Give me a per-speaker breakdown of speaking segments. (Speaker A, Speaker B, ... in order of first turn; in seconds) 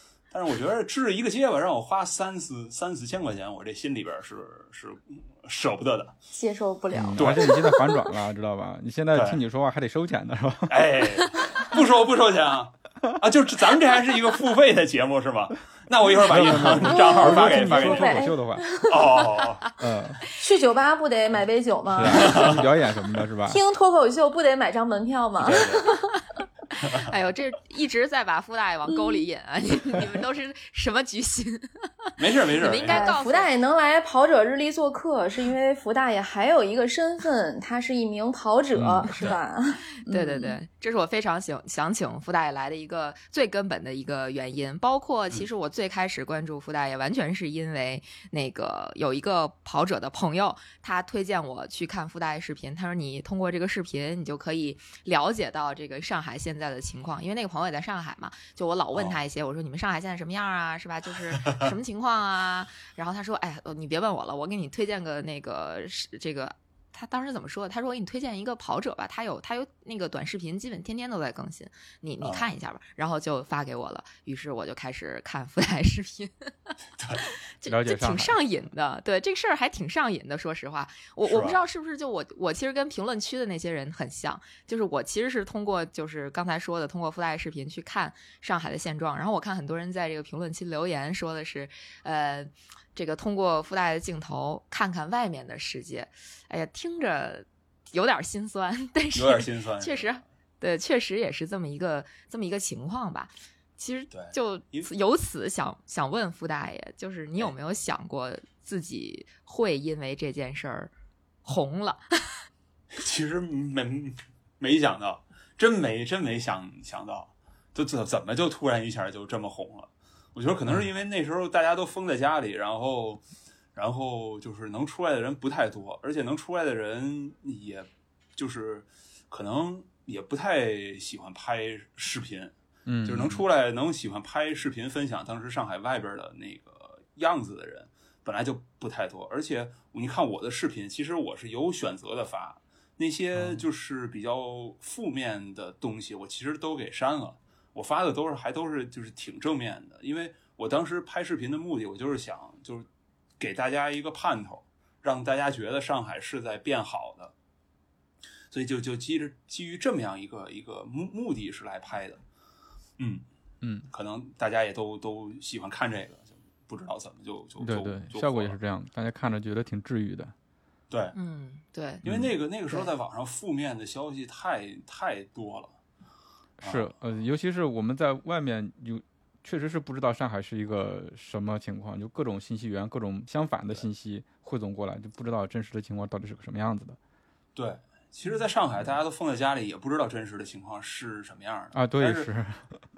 Speaker A: 0.3-6.1, 7.2-7.6, 9.1-9.4, 10.7-18.3, 18.9-19.7, 22.0-22.7, 25.4-25.9, 26.8-27.1, 32.2-33.1, 39.1-39.4, 61.3-61.7, 72.2-72.5, 77.0-77.2, 81.2-81.6, 99.1-100.2, 104.1-104.9, 112.9-123.2, 123.7-132.5, 133.0-152.9, 153.4-157.3, 158.5-162.2, 163.0-163.2, 163.9-168.6, 170.9-171.1, 172.0-175.7, 176.6-176.9, 187.6-192.3
Speaker B: 6.3-8.1, 16.4-19.4, 20.3-22.6, 23.5-26.1, 32.8-40.6
Speaker C: 6.9-11.3, 16.1-18.8, 19.8-20.2, 21.9-23.6, 38.7-39.1, 77.6-78.3, 132.8-133.4, 143.3-143.6, 163.6-163.9, 167.6-170.3, 172.0-172.3, 176.6-187.0, 191.7-192.7
Speaker D: 26.7-31.9, 32.5-33.5, 40.1-76.7, 77.6-110.9, 111.4-112.3, 171.1-172.0